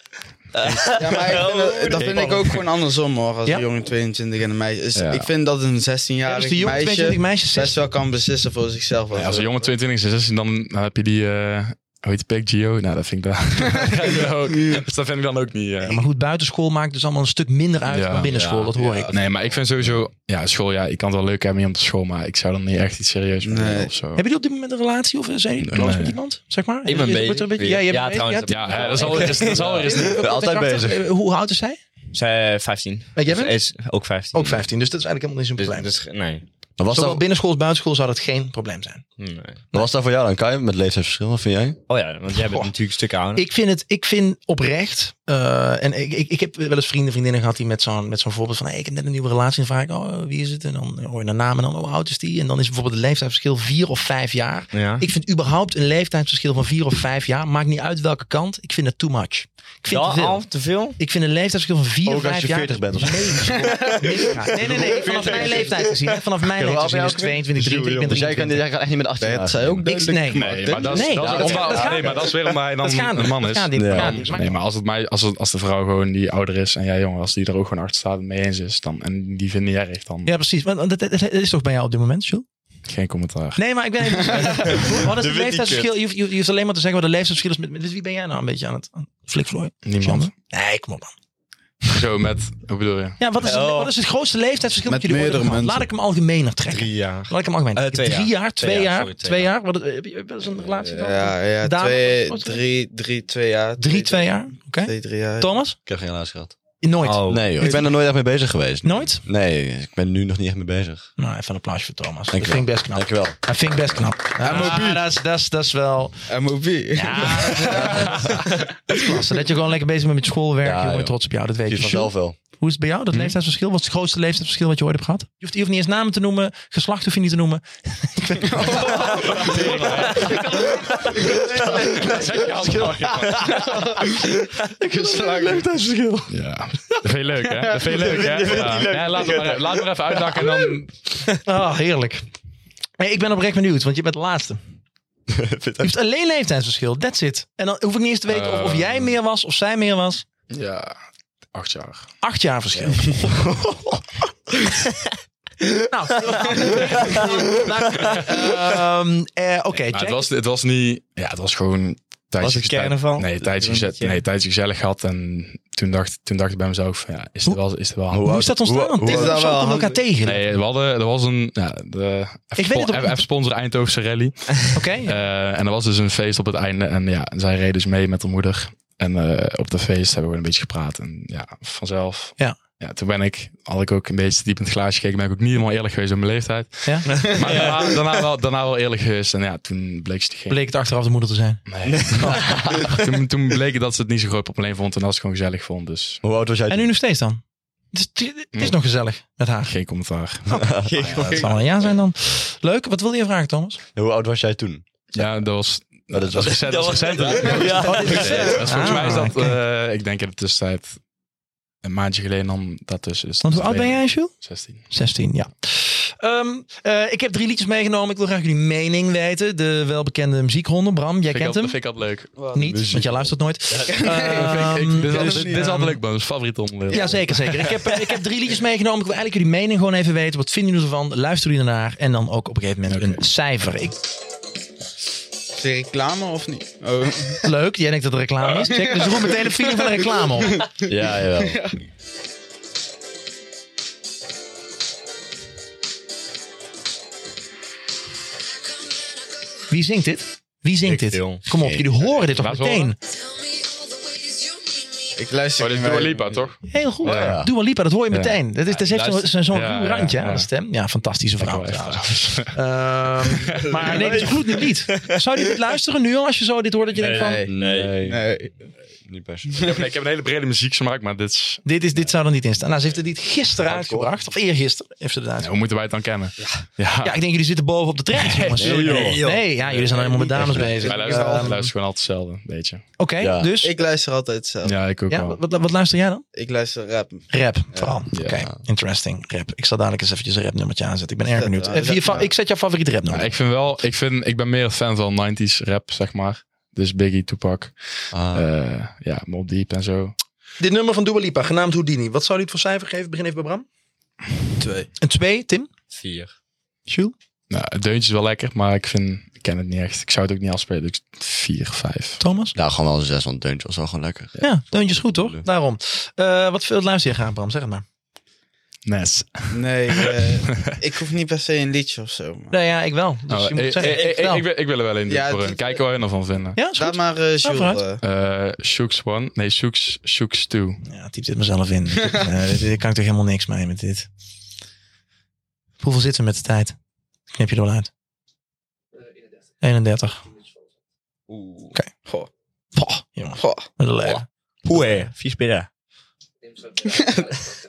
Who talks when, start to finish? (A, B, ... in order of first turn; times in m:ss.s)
0:00.5-0:02.4 A
0:00.8-0:09.6 B
0:02.0-0:02.3 C
0:04.9-0:05.3 C
0:06.2-0:07.8 D
0:09.1-0:16.0 C
0:13.8-0:14.8 B
0:15.8-0:19.2 D
0:17.9-0:18.3 C
0:18.3-0:18.7 A
0:18.8-0:19.2 B
0:19.1-0:24.2 C
0:23.4-0:23.9 B
0:24.2-0:31.8 D
0:25.6-0:26.2 C
0:26.8-0:30.1 A
0:28.5-0:30.2 C
0:30.1-0:31.0 E
0:32.1-0:34.6 A
0:33.1-0:33.6 D
0:34.3-0:35.9 D
0:35.6-0:36.4 A
0:36.8-0:37.2 E
0:36.9-0:39.0 D
0:39.2-0:39.6 A
0:39.7-0:41.8 E
0:41.9-0:43.4 A
0:43.3-1:08.6 D
0:54.7-0:55.0 A
0:59.9-1:01.0 A
1:02.0-1:03.7 E
1:04.8-1:06.1 A
1:05.0-1:05.4 B
1:06.6-1:09.9 E
1:07.8-1:08.2 A
1:09.2-1:11.6 B
1:09.8-1:14.6 D
1:10.3-1:20.3 C
1:11.3-1:11.9 A
1:13.7-1:14.2 E
1:20.2-1:22.4 D
1:22.9-1:23.6 C
1:23.6-1:31.1 D
1:24.3-1:24.9 B
1:25.0-1:25.9 E
1:29.8-1:30.3 C
1:31.9-1:33.2 C
1:33.2-1:42.6 D
1:33.4-1:33.9 A
1:34.9-1:35.8 B
1:36.7-1:39.5 A
1:40.9-1:45.5 B
1:43.8-1:45.8 D
1:45.8-1:46.5 E
1:46.8-1:47.9 D
1:47.0-1:47.7 A
1:47.2-1:51.1 E
1:48.8-1:49.2 D
1:51.2-1:56.3 D
1:52.3-1:54.0 E
1:54.4-1:55.0 B
1:56.3-1:58.6 B
1:56.9-2:16.3 D
2:00.6-2:02.4 E
2:08.4-2:12.2 B
2:09.0-2:10.7 C
2:11.4-2:13.6 C
2:13.2-2:14.3 B
2:14.8-2:15.6 B
2:16.3-2:21.0 C
2:16.8-2:17.6 D
2:17.8-2:19.8 A
2:18.1-2:19.4 E
2:21.4-2:22.2 D
2:23.0-2:24.6 D
2:25.3-2:25.9 E
2:25.8-2:30.2 D
2:28.3-2:29.1 C
2:30.5-2:30.9 C
2:31.5-2:32.1 C
2:32.2-2:33.3 D
2:35.9-2:40.3 D
2:39.9-2:48.3 C
2:42.4-2:44.2 A
2:48.1-2:49.4 E
2:48.1-2:50.5 D
2:49.0-2:50.0 B
2:50.2-3:10.6 C
2:52.6-2:53.2 D
2:54.7-2:55.2 D
3:06.8-3:07.1 D
3:07.1-3:07.9 A
3:10.5-3:12.4 D
3:11.7-3:16.2 C
3:11.9-3:12.9 A
3:16.2-3:16.9 E
3:16.7-3:17.4 D
3:17.9-3:19.8 D
3:19.6-3:21.5 C
3:20.5-3:23.8 D
3:20.8-3:21.6 A
3:23.9-3:24.8 E
3:25.1-3:31.0 C
3:26.1-3:27.0 E
3:26.4-3:29.0 A
3:27.1-3:29.6 D
3:31.8-3:34.8 C
3:33.4-3:34.3 D
3:34.9-3:41.8 D
3:41.3-3:42.3 C
3:42.4-3:42.7 B
3:42.5-3:46.0 D
3:42.6-3:43.3 E
3:43.8-3:45.8 B
3:44.2-3:47.7 C
3:46.9-3:54.0 D
3:52.9-3:53.2 C
3:55.5-3:57.4 B
3:57.4-4:00.6 D
3:58.6-4:01.8 B
4:00.8-4:01.6 E
4:09.7-4:13.0 D
4:10.8-4:11.4 A
4:11.6-4:11.8 E
4:12.2-4:12.9 C
4:15.1-4:16.4 B
4:15.6-4:17.4 C
4:16.7-4:27.4 D
4:17.0-4:17.5 E
4:18.1-4:18.4 C
4:18.7-4:19.4 A
4:19.5-4:20.5 C
4:21.4-4:22.6 C
4:23.3-4:23.9 C
4:23.8-4:25.0 A
4:27.0-4:28.0 A
4:27.0-4:28.5 B
4:27.5-4:28.2 E
4:29.0-4:29.6 E
4:29.5-4:31.6 C
4:31.6-4:35.5 D
4:33.7-4:34.1 E
4:35.4-4:37.2 C
4:37.0-4:41.7 D
4:38.1-4:39.3 C
4:38.5-4:40.8 E
4:38.9-4:39.4 A
4:40.4-4:41.6 B
4:40.6-4:42.9 C
4:43.0-4:43.7 D
4:43.2-4:43.5 E
4:43.6-4:44.8 B
4:44.6-4:45.4 C
4:45.1-4:46.2 D
4:46.3-4:48.0 B
4:47.3-4:53.3 D
4:48.1-4:48.5 C
4:51.3-4:52.3 B
4:53.1-5:00.1 C
4:58.1-4:58.4 E
5:00.6-5:03.6 D
5:04.6-5:04.9 B
5:05.0-5:05.7 D
5:05.9-5:06.3 A
5:06.9-5:07.1 D
5:07.5-5:12.2 C
5:12.2-5:12.5 D
5:12.5-5:14.4 E
5:14.4-5:17.8 D
5:15.0-5:15.4 E
5:18.8-5:20.8 C
5:19.5-5:22.5 B
5:22.5-5:24.4 D
5:23.3-5:26.6 C
5:25.1-5:25.8 B
5:26.6-5:27.8 D
5:26.7-5:28.0 B
5:28.0-5:30.8 C
5:30.8-5:34.1 D
5:35.8-5:36.8 D
5:37.3-5:37.9 D
5:39.6-5:40.2 D
5:41.3-5:42.3 B
5:42.7-5:44.9 D
5:43.4-5:43.6 B
5:44.6-5:45.7 A
5:46.9-5:47.2 B